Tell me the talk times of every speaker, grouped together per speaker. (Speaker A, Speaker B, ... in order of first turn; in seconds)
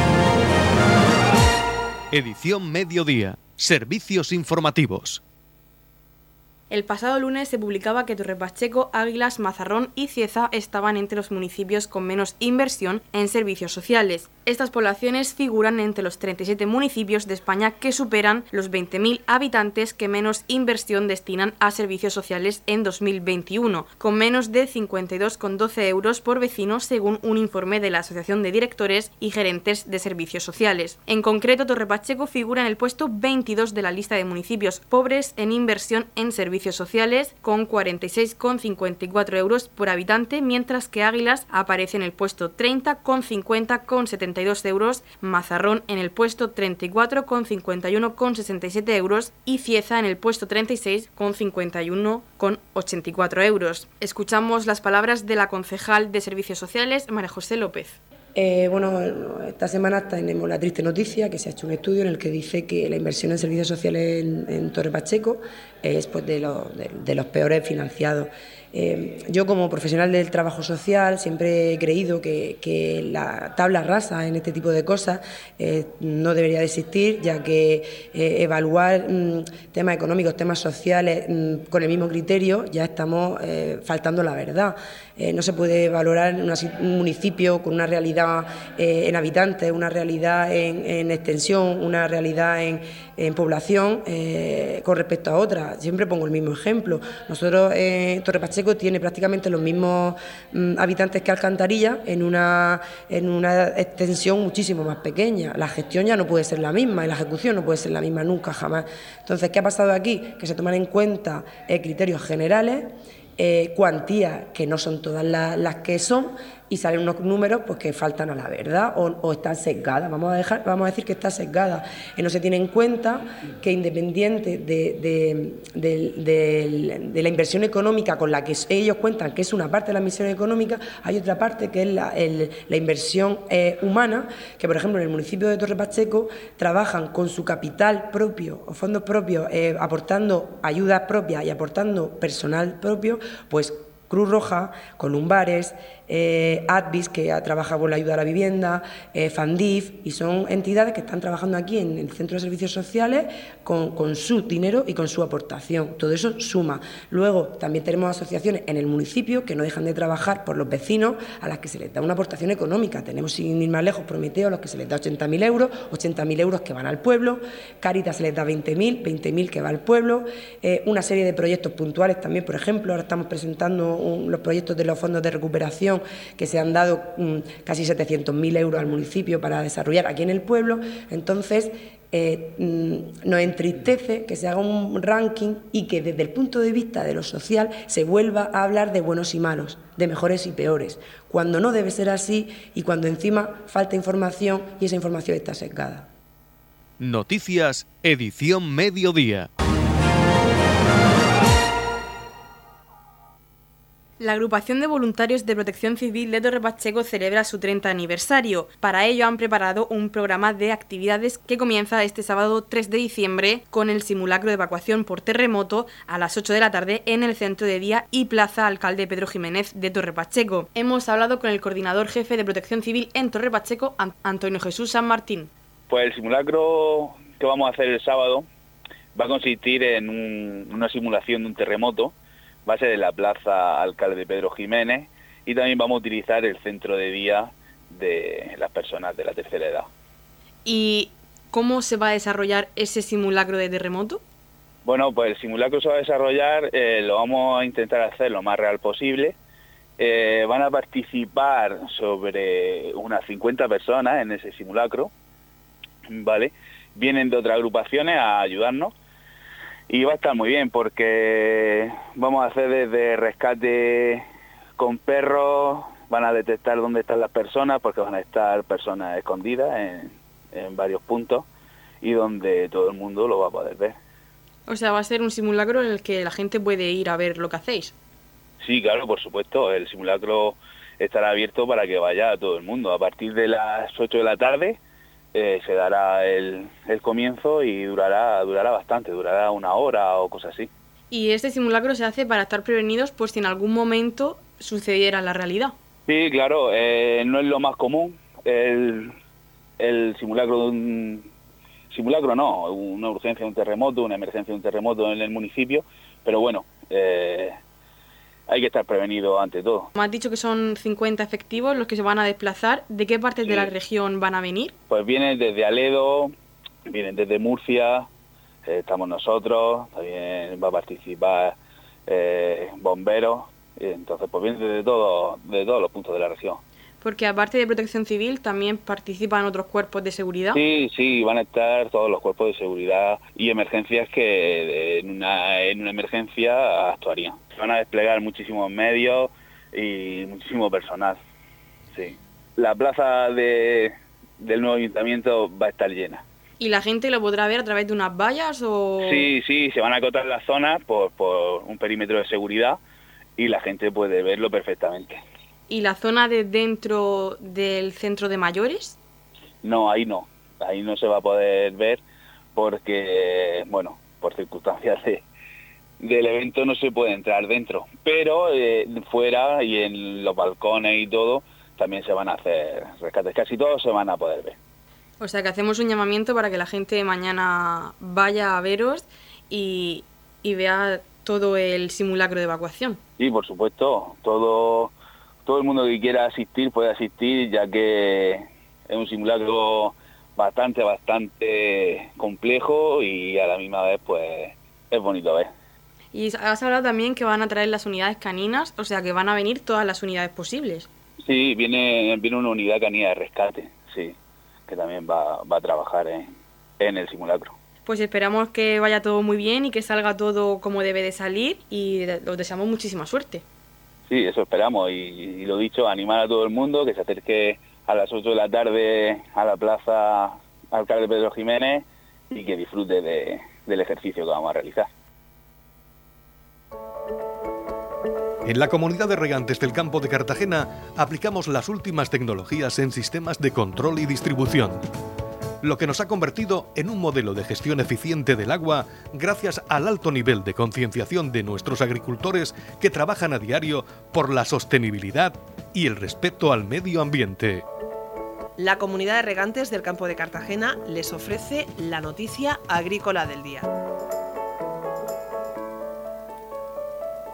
Speaker A: 2.1-5.2, 197.0-199.5, 428.4-434.8, 435.6-447.6
Speaker B: 6.7-58.0, 204.2-225.5, 240.6-244.2, 274.7-277.9, 291.1-295.8, 309.9-314.7, 327.0-330.6, 346.6-349.3, 355.7-359.0, 375.2-383.0, 396.1-400.9, 407.9-413.4
Speaker C: 58.3-196.1
Speaker D: 225.9-228.5, 229.1-232.1, 232.6-239.9, 244.8-249.3, 250.0-255.1, 256.1-258.9, 259.9-264.2, 264.8-271.5, 272.0-273.9, 278.6-284.8, 285.3-290.7, 296.1-299.1, 299.8-301.2, 301.9-307.6, 308.5-309.9, 313.4-313.7, 314.9-316.3, 316.9-318.1, 318.6-321.6, 322.1-326.6, 330.5-341.2, 341.9-346.2, 349.0-352.8, 353.4-355.2, 359.6-362.0, 362.5-365.2, 366.0-374.6, 383.2-384.9, 385.4-395.5, 401.2-404.1, 404.7-407.5, 414.1-424.9
Speaker E: 448.6-453.7